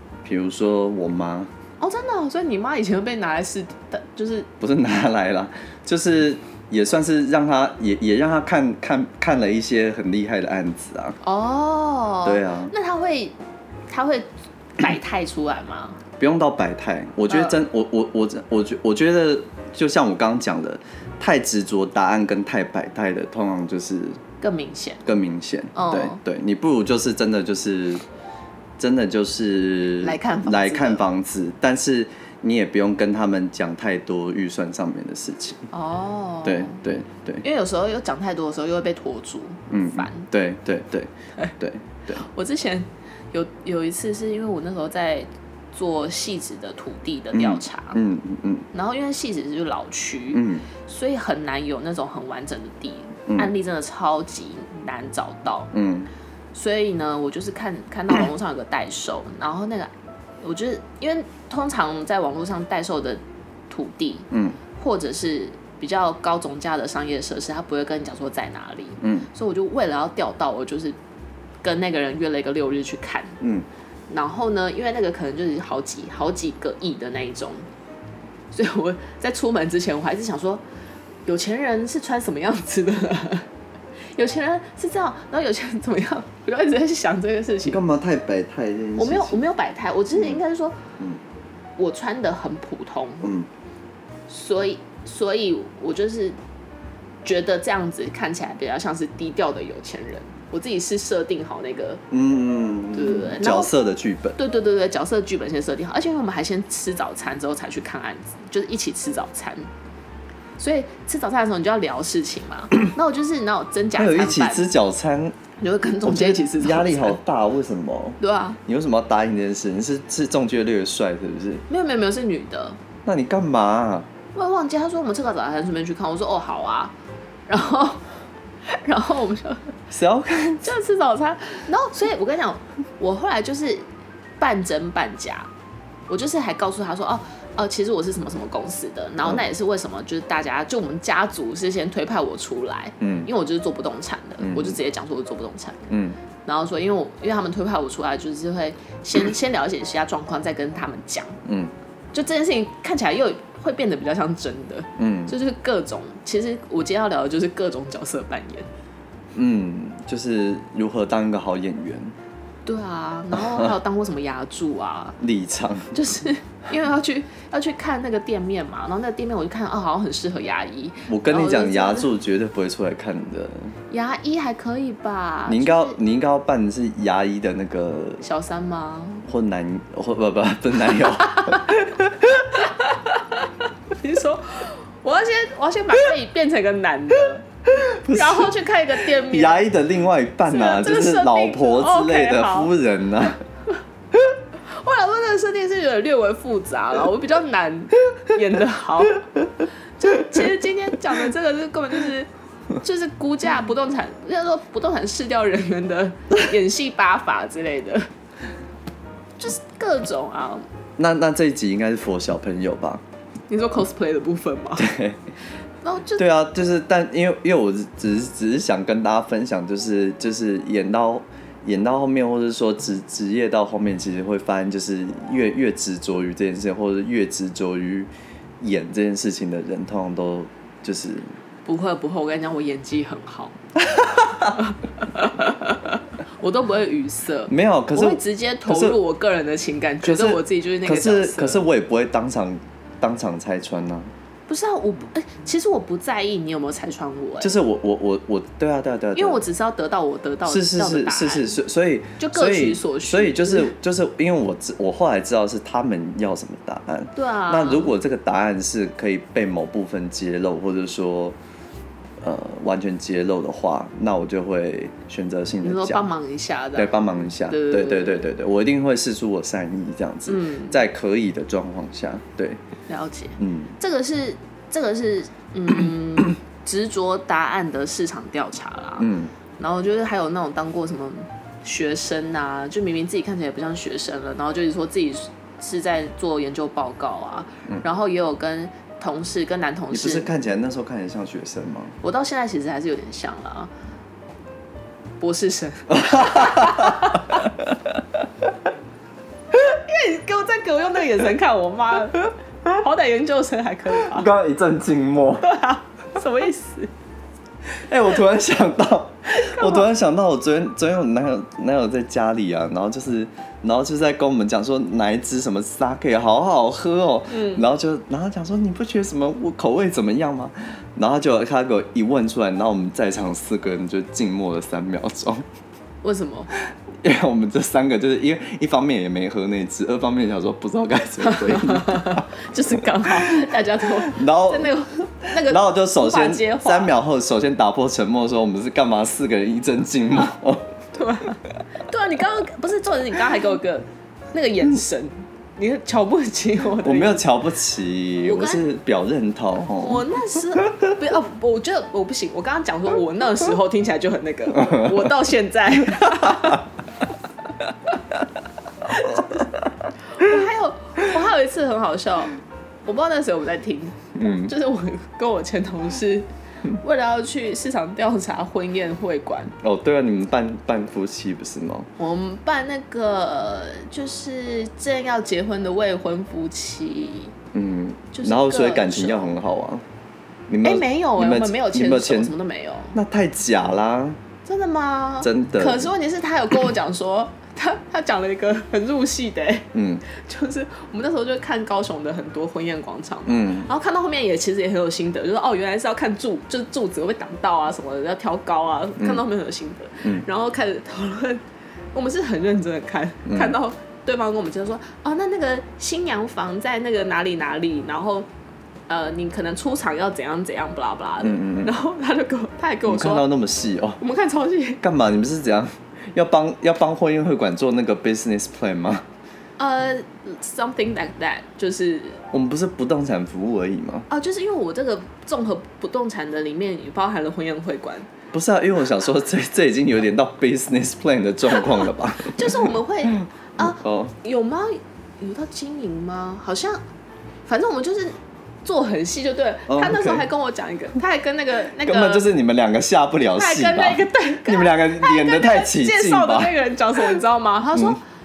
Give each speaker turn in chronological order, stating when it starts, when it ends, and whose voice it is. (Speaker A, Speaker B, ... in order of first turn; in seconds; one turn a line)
Speaker A: 0.2-1.5
Speaker B: 1.8-4.5
Speaker A: 4.6-11.2
Speaker B: 11.2-13.3
Speaker A: 12.2-12.7
Speaker B: 13.9-16.0
Speaker A: 16.2-24.2
Speaker B: 17.3-17.6
Speaker B: 24.4-25.1
Speaker A: 25.1-28.0
Speaker B: 25.7-26.2
Speaker A: 28.8-35.7
Speaker B: 30.0-31.0
Speaker B: 35.7-36.8
Speaker A: 36.4-37.4
Speaker B: 37.4-40.3
Speaker A: 39.7-42.2
Speaker B: 42.1-48.0
Speaker A: 47.3-48.7
Speaker B: 48.7-55.7
Speaker A: 50.3-50.6
Speaker A: 55.7-56.1
Speaker B: 56.5-59.9
Speaker B: 60.4-71.0
Speaker A: 64.3-64.6
Speaker A: 69.0-69.3
Speaker B: 71.6-73.4
Speaker A: 73.4-73.7
Speaker B: 74.1-77.7
Speaker B: 78.5-80.6
Speaker B: 81.2-83.5
Speaker B: 84.2-87.8
Speaker A: 87.6-89.4
Speaker B: 89.0-90.8
Speaker B: 91.8-93.3
Speaker A: 93.2-93.5
Speaker B: 94.3-96.4
Speaker B: 97.2-102.0
Speaker A: 102.1-104.4
Speaker B: 102.9-103.7
Speaker B: 104.4-109.7
Speaker B: 110.6-114.7
Speaker A: 113.9-115.3
Speaker B: 115.6-117.2
Speaker A: 116.0-121.6
Speaker B: 118.2-118.6
Speaker B: 121.7-122.8
Speaker A: 123.0-124.1
Speaker B: 124.3-126.9
Speaker B: 127.5-128.0
Speaker B: 128.6-129.7
Speaker A: 129.9-130.7
Speaker B: 130.6-133.8
Speaker B: 134.4-135.5
Speaker B: 136.1-145.9
Speaker A: 143.0-143.3
Speaker A: 144.4-144.8
Speaker A: 145.9-146.2
Speaker B: 146.4-151.4
Speaker A: 151.4-151.7
Speaker B: 152.1-158.7
Speaker A: 155.0-155.3
Speaker A: 159.3-162.1
Speaker B: 162.7-165.2
Speaker A: 163.3-163.7
Speaker A: 165.2-166.0
Speaker B: 165.9-172.1
Speaker A: 171.1-173.7
Speaker B: 173.9-176.0
Speaker A: 175.4-178.2
Speaker B: 178.2-179.3
Speaker A: 179.2-182.7
Speaker B: 182.6-187.4
Speaker A: 187.7-188.5
Speaker B: 188.0-189.7
Speaker A: 189.2-193.4
Speaker B: 190.4-192.7
Speaker B: 194.7-199.3
Speaker B: 200.0-208.1
Speaker B: 209.4-210.6
Speaker A: 211.0-213.0
Speaker B: 213.5-214.9
Speaker A: 214.8-215.2
Speaker B: 215.8-216.2
Speaker A: 216.2-231.3
Speaker B: 231.6-233.6
Speaker A: 233.8-234.6
Speaker B: 234.4-241.7
Speaker A: 237.5-239.0
Speaker A: 240.0-244.1
Speaker B: 244.5-247.5
Speaker A: 247.4-249.4
Speaker B: 249.1-251.6
Speaker A: 250.4-261.4
Speaker B: 252.2-253.7
Speaker B: 257.1-257.9
Speaker A: 262.2-266.1
Speaker B: 265.6-268.3
Speaker A: 266.7-272.6
Speaker B: 270.3-270.8
Speaker B: 272.9-290.3
Speaker A: 273.4-273.7
Speaker A: 279.0-279.3
Speaker A: 289.9-292.0
Speaker B: 292.0-293.7
Speaker B: 295.2-297.4
Speaker A: 295.9-297.8
Speaker B: 299.5-304.3
Speaker A: 304.0-305.4
Speaker B: 305.4-306.9
Speaker A: 307.9-325.4
Speaker B: 309.3-309.9
Speaker B: 317.3-317.6
Speaker B: 326.0-326.5
Speaker A: 327.0-332.3
Speaker B: 331.2-336.9
Speaker A: 333.0-334.7
Speaker A: 335.3-340.8
Speaker B: 340.9-347.2
Speaker A: 346.8-350.1
Speaker B: 348.2-348.6
Speaker B: 349.8-356.7
Speaker A: 354.6-355.0
Speaker B: 358.9-359.4
Speaker B: 360.1-369.5
Speaker A: 364.2-364.5
Speaker A: 369.6-371.9
Speaker B: 372.0-377.3
Speaker A: 377.5-379.8
Speaker B: 378.1-379.4
Speaker A: 380.5-382.3
Speaker B: 380.6-383.0
Speaker A: 382.9-384.2
Speaker B: 384.4-408.3
Speaker A: 385.2-385.9
Speaker A: 389.7-390.0
Speaker A: 393.3-393.7
Speaker A: 403.2-403.6
Speaker B: 408.9-413.3
Speaker A: 411.2-411.8
Speaker A: 412.9-414.0
Speaker B: 414.0-414.8
Speaker A: 414.8-419.0
Speaker B: 419.6-422.2
Speaker A: 422.3-424.1
Speaker B: 424.1-428.1
Speaker A: 428.3-434.1
Speaker B: 431.5-436.8
Speaker B: 437.5-442.3
Speaker A: 439.7-440.2
Speaker A: 441.8-446.6
Speaker B: 443.3-448.0